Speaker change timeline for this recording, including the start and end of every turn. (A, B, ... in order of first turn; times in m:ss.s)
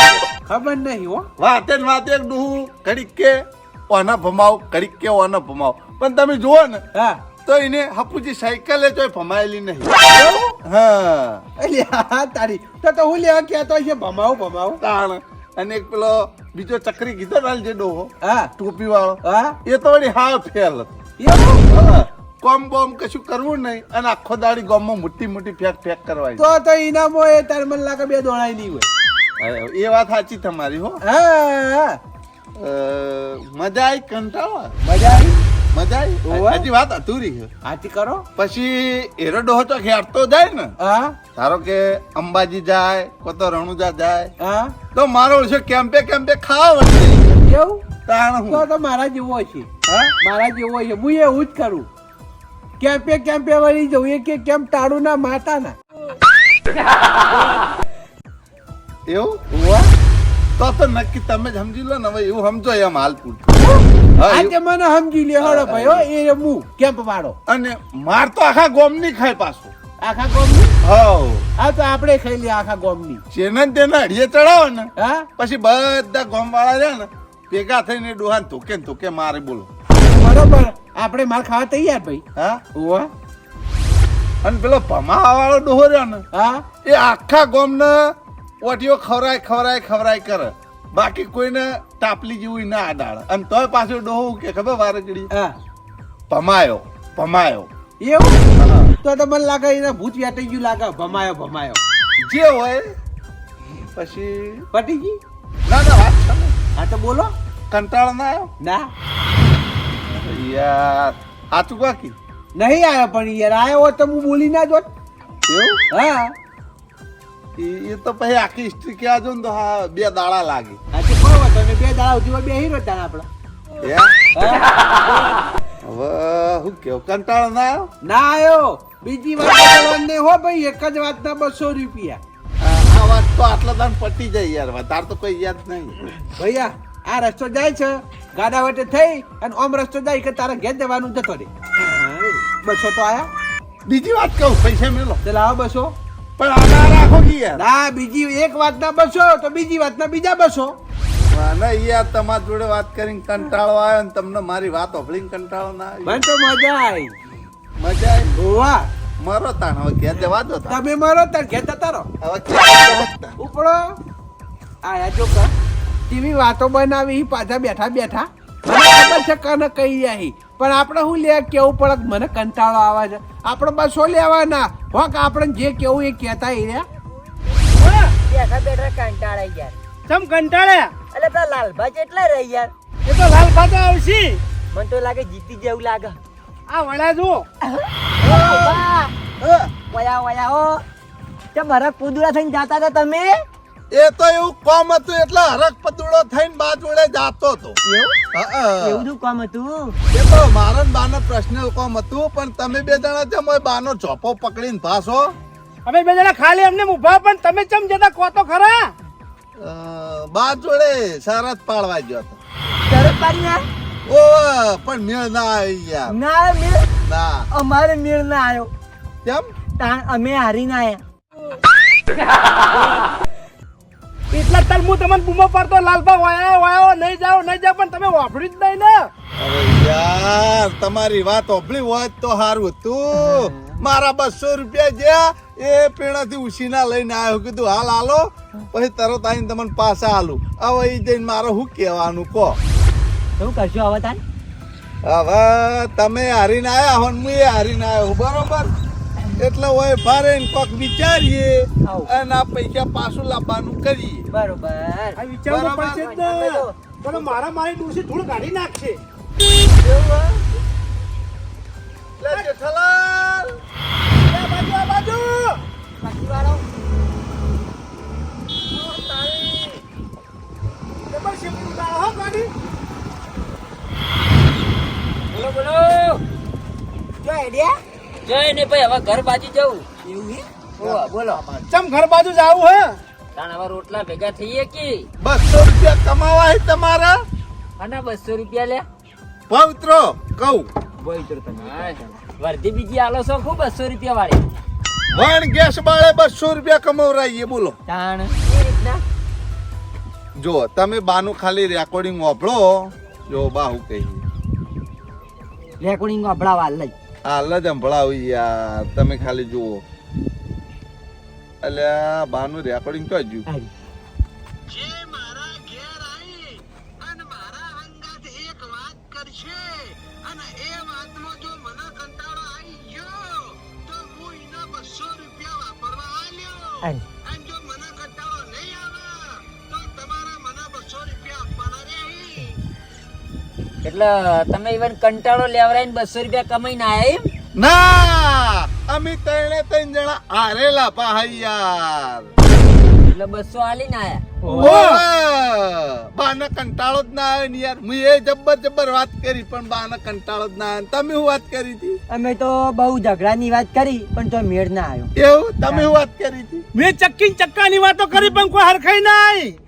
0:00.5-0:01.3 A
0:01.4-0:06.8 B
0:06.9-0:07.2 A
0:07.4-0:10.0 B
0:10.1-0:10.5 A
0:10.6-0:11.5 B
0:11.6-0:14.8 A
0:14.8-0:21.0 B
0:18.2-0:18.5 A
0:19.2-0:19.6 A
0:21.2-0:21.6 A
0:21.7-0:26.5 B
0:26.4-0:28.9 A
0:29.4-0:31.0 B
0:31.0-0:32.0 A
0:32.6-0:34.8 B
0:34.8-0:35.4 A
0:35.7-0:37.5 B
0:36.3-0:36.7 A
0:37.6-0:38.3 A
0:38.4-0:40.7 B
0:40.8-0:41.2 A
0:41.4-0:44.3 B
0:44.4-0:44.8 A
0:44.9-0:47.4 B
0:47.4-0:47.8 A
0:48.1-0:48.7 B
0:48.5-0:49.7 A
0:49.8-0:50.1 B
0:50.2-0:51.9 A
0:52.8-0:55.8 A
0:59.1-0:59.4 B
0:59.5-0:59.9 A
1:00.6-1:03.6 B
1:03.6-1:07.4 A
1:04.2-1:04.6 B
1:05.4-1:06.1 B
1:07.5-1:09.7 B
1:10.0-1:10.7 A
1:10.8-1:11.5 B
1:11.6-1:13.2 A
1:13.3-1:19.7 B
1:15.0-1:15.3 A
1:19.9-1:22.2 A
1:22.4-1:22.6 B
1:22.8-1:23.1 A
1:24.4-1:26.2 B
1:26.3-1:26.6 A
1:26.8-1:35.3 B
1:36.3-1:37.7 B
1:38.0-1:38.4 A
1:38.6-1:39.0 B
1:39.0-1:41.8 A
1:42.2-1:42.9 B
1:44.0-1:44.7 B
1:44.7-1:45.2 A
1:45.7-1:46.6 B
1:46.8-1:47.3 A
1:47.7-1:48.5 B
1:48.6-1:48.9 A
1:50.1-1:52.2 B
1:52.6-1:54.9 A
1:55.5-1:55.8 B
1:55.9-1:56.4 A
1:57.6-2:00.8 B
2:00.9-2:03.3 A
2:03.8-2:04.6 B
2:04.3-2:04.7 A
2:05.8-2:07.9 B
2:08.0-2:12.2 A
2:12.6-2:16.0 B
2:16.2-2:23.3 A
2:23.9-2:25.2 B
2:25.2-2:26.0 A
2:26.4-2:27.6 B
2:27.6-2:30.8 A
2:31.3-2:36.2 B
2:36.0-2:37.1 A
2:37.8-2:38.4 B
2:38.4-2:38.9 A
2:39.2-2:40.8 B
2:40.7-2:42.1 A
2:42.2-2:43.4 B
2:43.4-2:43.8 A
2:44.8-2:45.5 A
2:46.1-2:56.9 A
2:57.8-2:58.2 C
2:58.3-2:59.8 D
3:00.1-3:00.9 C
3:01.1-3:02.7 D
3:03.0-3:04.4 C
3:04.7-3:06.2 D
3:06.7-3:07.5 C
3:07.6-3:09.1 D
3:08.2-3:08.8 B
3:09.9-3:10.8 D
3:11.5-3:13.4 D
3:13.9-3:17.8 B
3:17.8-3:18.2 D
3:18.3-3:19.1 B
3:18.8-3:20.0 D
3:20.1-3:25.4 B
3:25.9-3:28.9 C
3:29.6-3:32.4 B
3:32.9-3:33.6 D
3:34.1-3:36.2 B
3:36.1-3:36.9 D
3:37.0-3:37.5 B
3:37.5-3:38.7 D
3:39.8-3:41.0 D
3:44.3-3:49.1 C
3:49.4-4:02.6 B
3:53.2-3:53.8 D
4:03.4-4:04.2 D
4:05.0-4:08.7 B
4:09.4-4:14.3 B
4:11.8-4:12.1 D
4:14.3-4:15.2 D
4:15.2-4:19.0 C
4:15.5-4:16.0 B
4:15.8-4:17.3 D
4:19.8-4:20.5 B
4:22.2-4:23.6 B
4:24.3-4:25.6 C
4:26.0-4:26.6 D
4:28.8-4:29.8 C
4:31.1-4:32.5 C
4:35.3-4:36.2 E
4:37.2-4:37.7 D
4:38.2-4:39.9 E
4:40.0-4:40.4 D
4:40.8-4:41.4 E
4:40.8-4:41.8 B
4:41.7-4:43.0 C
4:43.4-4:45.1 E
4:45.2-4:47.2 B
4:47.8-4:48.8 E
4:49.5-4:50.7 B
4:51.0-4:52.2 D
4:51.5-4:54.4 E
4:55.1-4:57.8 B
4:57.9-4:58.4 D
4:58.4-4:59.0 E
5:00.4-5:04.2 B
5:05.8-5:06.9 D
5:07.3-5:09.8 B
5:11.6-5:13.5 B
5:14.7-5:32.6 A
5:33.8-5:37.2 E
5:37.6-5:42.3 B
5:43.1-5:44.2 E
5:44.4-5:44.8 D
5:44.5-5:52.0 B
5:44.6-5:45.0 C
5:52.1-5:55.1 D
5:55.2-5:56.7 B
5:55.7-5:56.0 D
5:56.8-5:59.6 C